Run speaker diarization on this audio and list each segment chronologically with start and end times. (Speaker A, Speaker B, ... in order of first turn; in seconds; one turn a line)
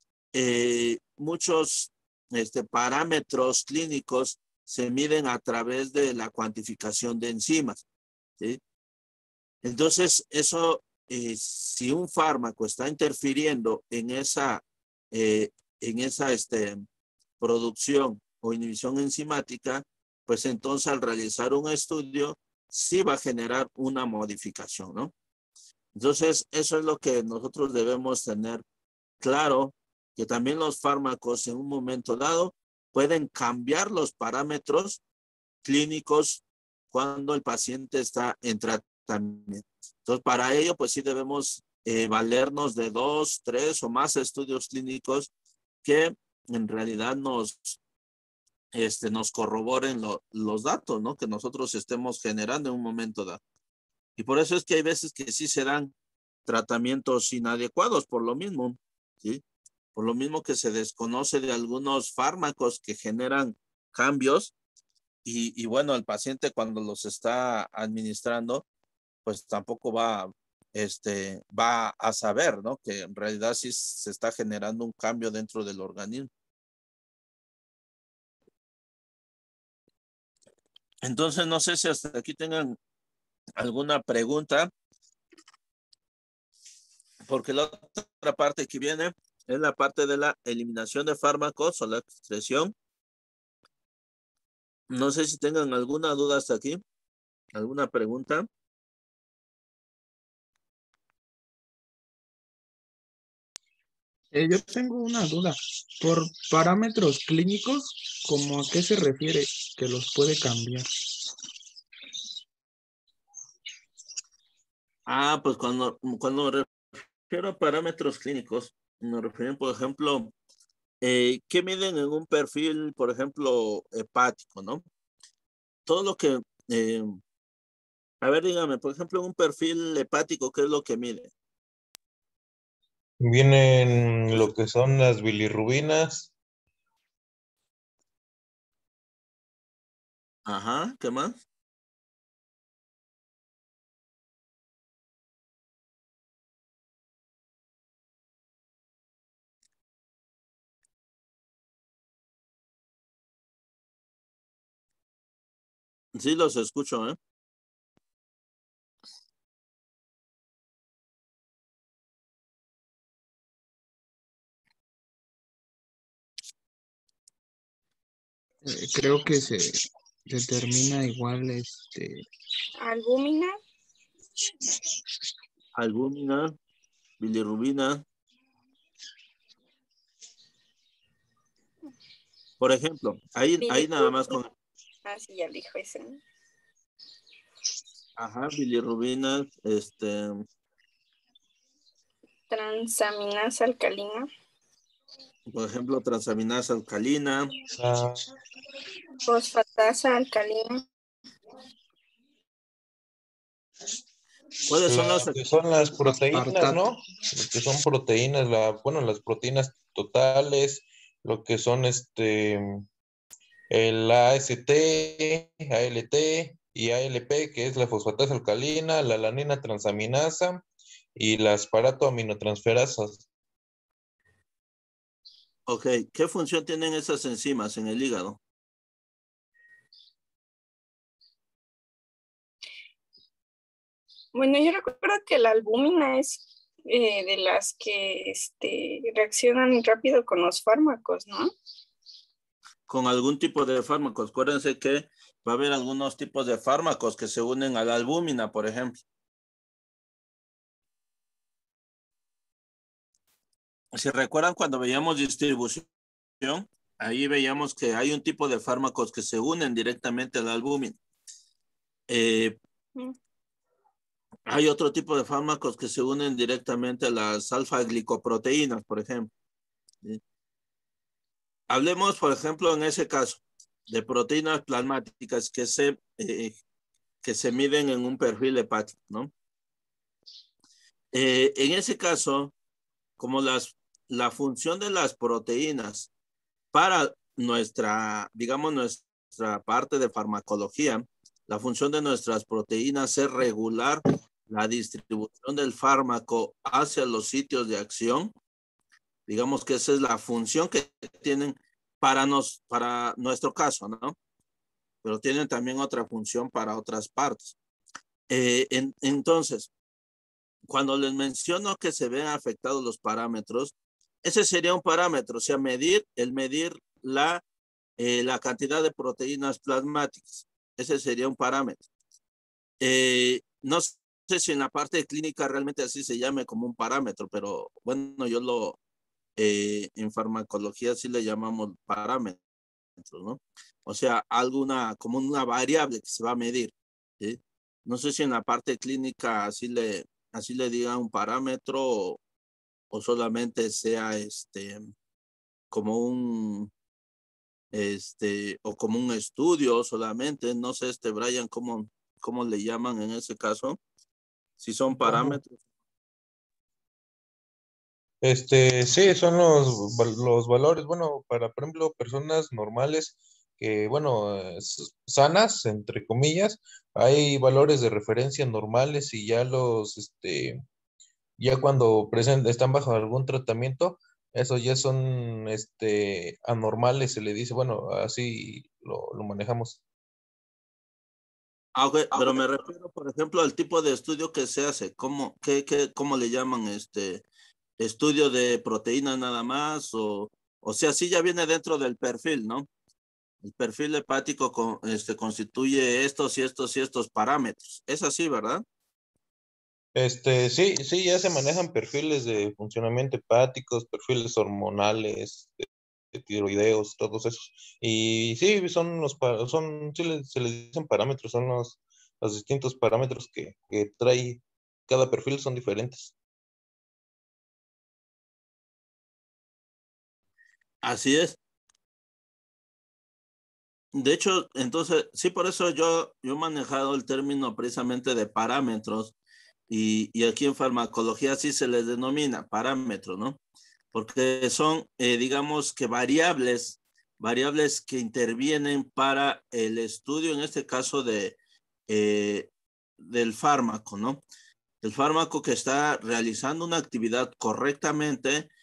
Speaker A: 0.3-7.8
Speaker A: 9.6-16.8
Speaker A: 17.4-25.1
Speaker A: 25.9-28.6
Speaker A: 29.2-35.0
Speaker A: 35.6-45.3
Speaker A: 45.8-47.8
Speaker A: 48.7-53.4
Speaker A: 54.2-55.9
Speaker A: 56.5-59.4
Speaker A: 59.9-64.5
Speaker A: 65.2-68.6
Speaker A: 69.2-76.3
Speaker A: 81.0-82.8
Speaker A: 83.6-84.7
Speaker A: 87.3-92.7
Speaker A: 94.9-96.8
Speaker A: 97.5-98.5
Speaker B: 104.3-110.9
Speaker A: 115.1-120.3
Speaker A: 121.0-124.8
Speaker A: 125.8-127.2
Speaker A: 128.2-131.3
Speaker C: 133.2-136.3
Speaker A: 140.4-141.4
Speaker A: 156.1-157.2
Speaker B: 168.6-172.2
Speaker D: 172.8-173.6
Speaker A: 175.8-176.5
Speaker A: 177.2-178.0
Speaker A: 182.6-184.5
Speaker D: 183.6-184.4
Speaker D: 185.0-186.2
Speaker A: 188.2-190.4
Speaker D: 192.5-194.3
Speaker A: 195.5-197.5
Speaker C: 197.8-198.2
Speaker D: 199.2-200.8
Speaker A: 204.7-205.4
Speaker C: 204.7-212.8
Speaker B: 206.2-206.9
Speaker C: 213.7-220.6
Speaker C: 221.1-223.2
Speaker A: 225.7-228.4
Speaker D: 234.3-241.5
Speaker A: 242.9-249.0
Speaker A: 253.9-255.9
Speaker A: 256.4-261.0
Speaker A: 262.1-262.6
Speaker A: 264.5-269.3
Speaker A: 271.7-276.6
Speaker A: 277.2-279.3
Speaker A: 281.1-282.5
Speaker A: 283.2-286.1
Speaker A: 286.7-298.3
Speaker A: 299.3-304.1
Speaker A: 305.0-307.6
Speaker A: 308.3-309.7
Speaker A: 310.7-313.7
Speaker A: 314.2-317.4
Speaker A: 318.0-321.8
Speaker A: 322.8-328.8
Speaker A: 329.4-332.4
Speaker A: 333.0-342.2
Speaker A: 342.9-344.9
Speaker A: 345.7-346.7
Speaker A: 347.7-353.8
Speaker A: 354.6-355.6
Speaker C: 355.0-355.4
Speaker C: 358.2-370.6
Speaker C: 371.4-379.8
Speaker A: 381.8-387.2
Speaker A: 387.8-392.7
Speaker A: 393.4-398.6
Speaker C: 399.9-416.1
Speaker A: 420.8-421.4
Speaker A: 423.9-429.1
Speaker A: 429.7-433.4
Speaker A: 433.9-441.4
Speaker A: 441.9-444.2
Speaker A: 444.8-448.5